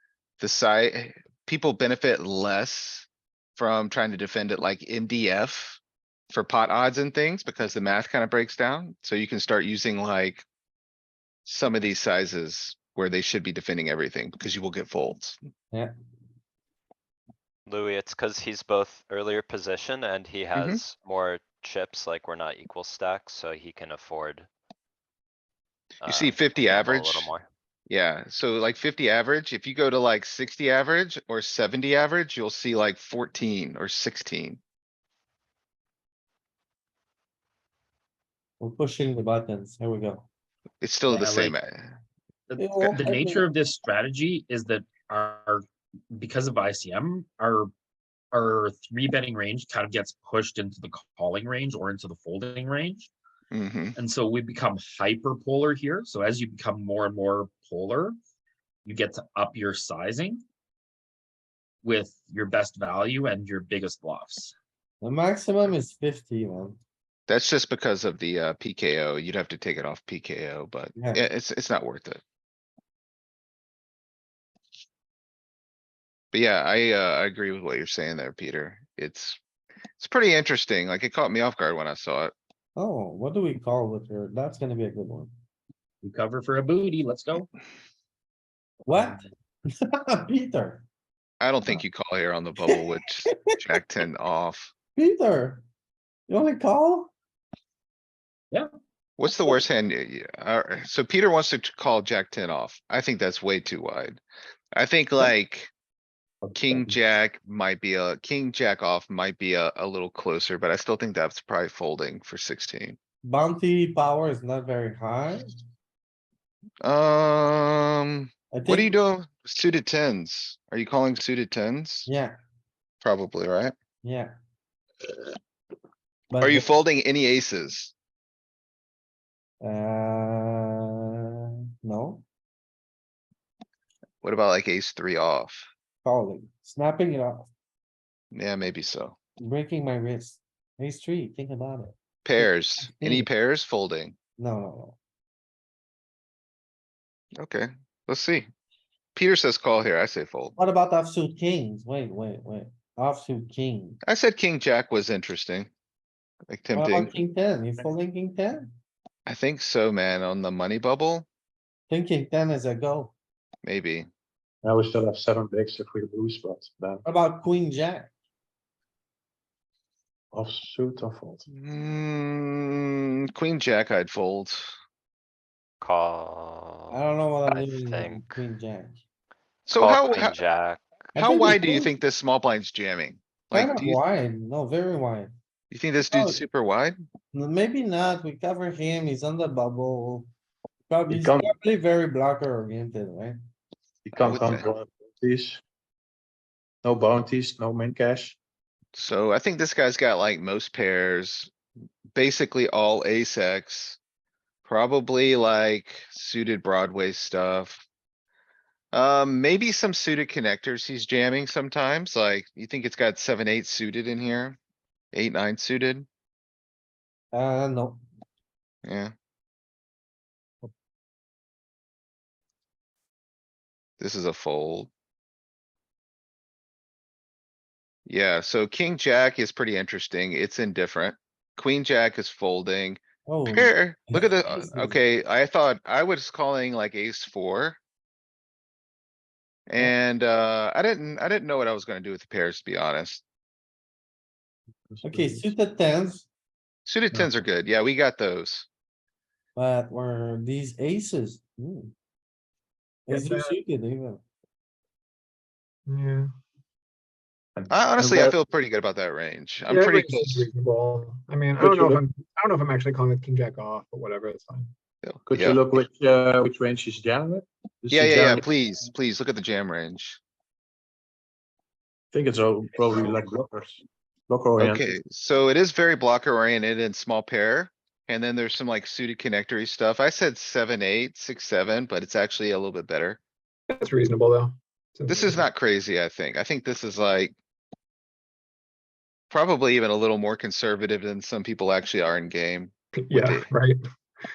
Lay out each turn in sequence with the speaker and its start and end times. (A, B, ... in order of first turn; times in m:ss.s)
0:00.4-0:05.8 A
0:06.3-0:10.4 A
0:11.4-0:15.4 A
0:17.7-0:24.5 B
0:20.6-0:20.8 A
0:26.0-0:27.5 B
0:26.0-0:27.3 A
0:27.9-0:34.6 A
0:38.6-0:40.3 C
0:40.8-0:42.0 A
0:41.1-0:41.6 D
0:42.5-0:47.7 D
0:42.6-0:43.5 C
0:48.3-0:53.1 D
0:53.5-0:54.0 A
0:54.0-0:58.2 D
0:58.8-1:00.4 D
1:01.8-1:04.5 D
1:05.0-1:06.8 C
1:07.3-1:12.2 A
1:16.3-1:19.4 A
1:20.0-1:22.3 A
1:22.8-1:25.3 C
1:26.0-1:27.5 D
1:28.8-1:29.2 C
1:29.9-1:30.9 C
1:31.4-1:34.7 A
1:35.0-1:35.6 C
1:36.3-1:37.1 C
1:39.2-1:44.2 A
1:44.7-1:45.7 A
1:46.4-1:47.0 E
1:46.6-1:53.0 A
1:53.2-1:55.5 C
1:56.8-2:02.1 A
1:58.5-1:58.9 C
2:02.1-2:02.4 C
2:03.0-2:03.7 A
2:04.0-2:04.3 C
2:06.3-2:06.7 C
2:06.4-2:07.9 A
2:09.6-2:12.2 C
2:14.2-2:15.7 A
2:16.0-2:17.5 C
2:18.3-2:19.2 A
2:19.4-2:23.3 C
2:22.2-2:24.2 A
2:24.4-2:25.0 C
2:27.4-2:28.5 A
2:29.2-2:30.6 A
2:30.6-2:34.0 C
2:34.0-2:35.7 A
2:36.5-2:37.2 A
2:36.7-2:38.7 C
2:39.3-2:41.3 A
2:41.9-2:43.1 C
2:43.6-2:44.1 A
2:44.6-2:47.0 E
2:47.1-2:48.1 C
2:50.3-2:51.5 E
2:51.5-2:54.7 A
2:55.8-2:58.3 B
2:56.9-2:59.0 C
2:59.7-3:00.4 A
2:59.7-3:01.1 B
3:01.2-3:01.9 C
3:01.2-3:04.0 A
3:03.5-3:05.3 C
3:05.7-3:07.0 A
3:06.1-3:06.4 C
3:07.3-3:10.3 C
3:10.9-3:13.4 C
3:11.1-3:11.6 E
3:14.0-3:15.6 E
3:14.2-3:14.6 A
3:16.8-3:18.4 E
3:19.0-3:21.5 A
3:22.2-3:24.0 A
3:24.6-3:27.9 A
3:28.9-3:34.6 A
3:35.1-3:36.1 A
3:37.3-3:38.0 C
3:38.8-3:39.1 A
3:44.0-3:44.9 A
3:48.1-3:57.8 A
3:53.3-3:55.0 C
3:59.7-4:03.2 A
4:04.9-4:05.5 E
4:05.0-4:06.3 C
4:06.9-4:08.7 A
4:09.6-4:11.9 C
4:13.1-4:14.2 C
4:13.1-4:13.4 F
4:15.9-4:16.3 F
4:17.6-4:18.4 E
4:17.7-4:20.5 A
4:19.7-4:24.7 F
4:21.6-4:22.0 E
4:25.0-4:25.6 A
4:25.3-4:28.5 E
4:27.9-4:30.2 A
4:32.1-4:35.0 E
4:34.6-4:43.2 A
4:43.7-4:45.4 F
4:45.1-4:47.4 A
4:49.3-4:53.5 A
4:53.0-4:53.8 F